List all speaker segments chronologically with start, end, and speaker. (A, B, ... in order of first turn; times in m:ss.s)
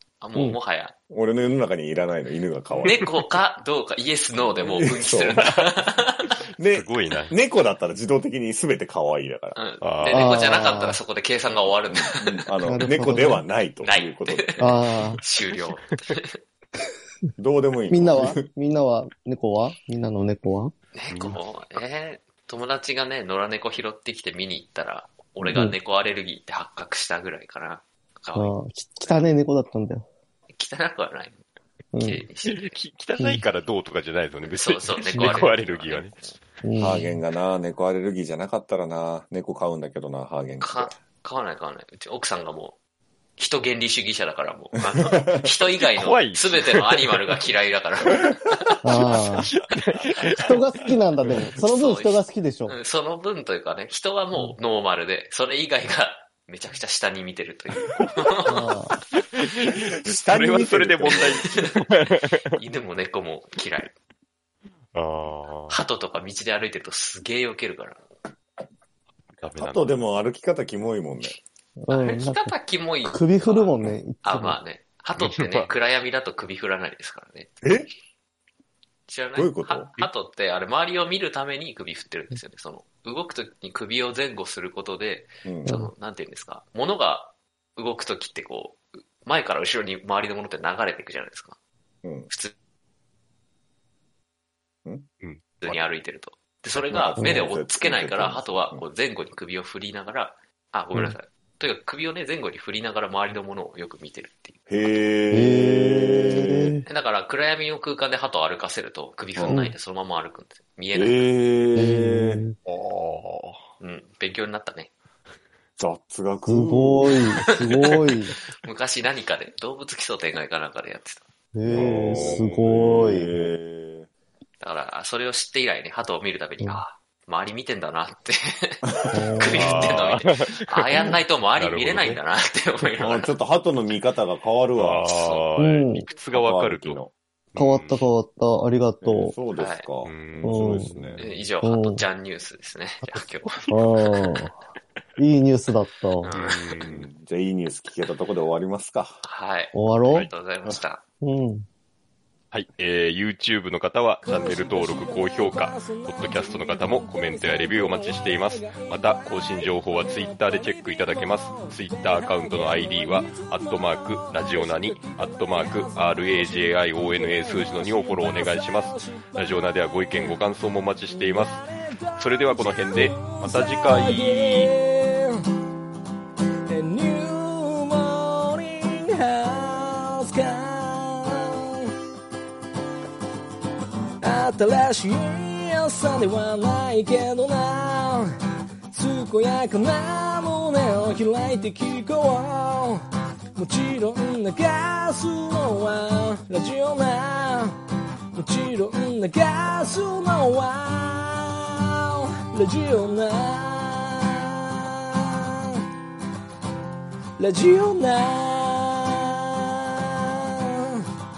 0:00.2-0:00.9 A
0:01.1-0:03.0 B
0:02.8-0:06.3 A
0:04.6-0:05.5 B
0:06.6-0:09.6 B
0:06.7-0:07.3 C
0:09.5-0:12.5 A
0:09.8-0:10.4 C
0:10.1-0:11.0 D
0:11.9-0:14.8 B
0:12.6-0:13.5 D
0:13.8-0:16.3 A
0:14.6-0:15.2 D
0:15.1-0:16.0 C
0:17.4-0:18.4 B
0:17.9-0:20.7 D
0:20.9-0:29.2 A
0:21.1-0:21.4 C
0:25.4-0:25.8 D
0:28.3-0:30.0 D
0:30.6-0:31.4 A
0:31.9-0:32.2 D
0:32.0-0:32.7 A
0:32.4-0:36.2 C
0:33.2-0:33.4 D
0:34.4-0:36.3 A
0:36.6-0:37.2 D
0:36.8-0:41.0 B
0:40.6-0:42.8 A
0:43.4-0:49.1 A
0:45.9-0:47.2 C
0:48.8-0:49.5 D
0:49.4-0:50.6 C
0:50.3-0:52.7 D
0:51.6-0:58.6 A
0:58.5-0:59.0 D
0:59.1-1:02.6 C
0:59.9-1:01.5 B
1:01.0-1:01.8 A
1:02.5-1:03.9 A
1:04.9-1:05.8 C
1:05.7-1:08.0 A
1:09.4-1:10.1 C
1:09.6-1:11.4 B
1:11.8-1:14.6 D
1:11.9-1:17.5 A
1:15.2-1:15.7 C
1:17.6-1:17.9 B
1:19.1-1:31.6 A
1:19.3-1:19.9 B
1:25.4-1:25.7 B
1:25.6-1:25.9 D
1:32.0-1:32.3 B
1:32.3-1:32.5 A
1:35.6-1:44.9 A
1:36.8-1:38.8 B
1:37.2-1:37.4 D
1:44.7-1:46.8 B
1:45.3-1:46.8 D
1:46.8-1:51.3 A
1:49.4-1:49.7 D
1:50.9-1:52.4 B
1:51.8-1:52.5 D
1:52.6-1:53.6 C
1:53.8-1:54.9 A
1:55.8-1:57.1 B
1:56.4-1:58.3 D
1:58.6-2:01.2 A
2:01.5-2:03.5 D
2:01.6-2:04.1 B
2:01.7-2:02.7 C
2:04.6-2:13.3 A
2:08.9-2:10.0 B
2:09.1-2:09.9 D
2:09.5-2:12.2 C
2:13.0-2:15.0 B
2:14.8-2:17.0 C
2:15.0-2:15.4 A
2:15.6-2:16.1 D
2:16.2-2:17.1 B
2:17.5-2:18.1 C
2:17.6-2:19.4 D
2:19.0-2:21.2 B
2:19.5-2:19.8 A
2:20.0-2:21.3 C
2:20.4-2:22.0 D
2:21.2-2:23.6 A
2:23.0-2:24.4 C
2:23.7-2:24.6 D
2:25.2-2:26.3 D
2:26.2-2:26.9 A
2:26.3-2:27.0 C
2:26.9-2:29.2 B
2:29.2-2:31.0 A
2:29.7-2:30.3 D
2:31.2-2:31.6 D
2:32.5-2:54.8 C
2:34.3-2:49.4 E
2:51.3-2:55.4 E
2:56.7-3:01.9 E
3:04.2-3:08.4 E
3:08.9-3:13.0 E
3:13.6-3:17.8 E
3:18.3-3:25.8 E
3:27.4-3:31.0 E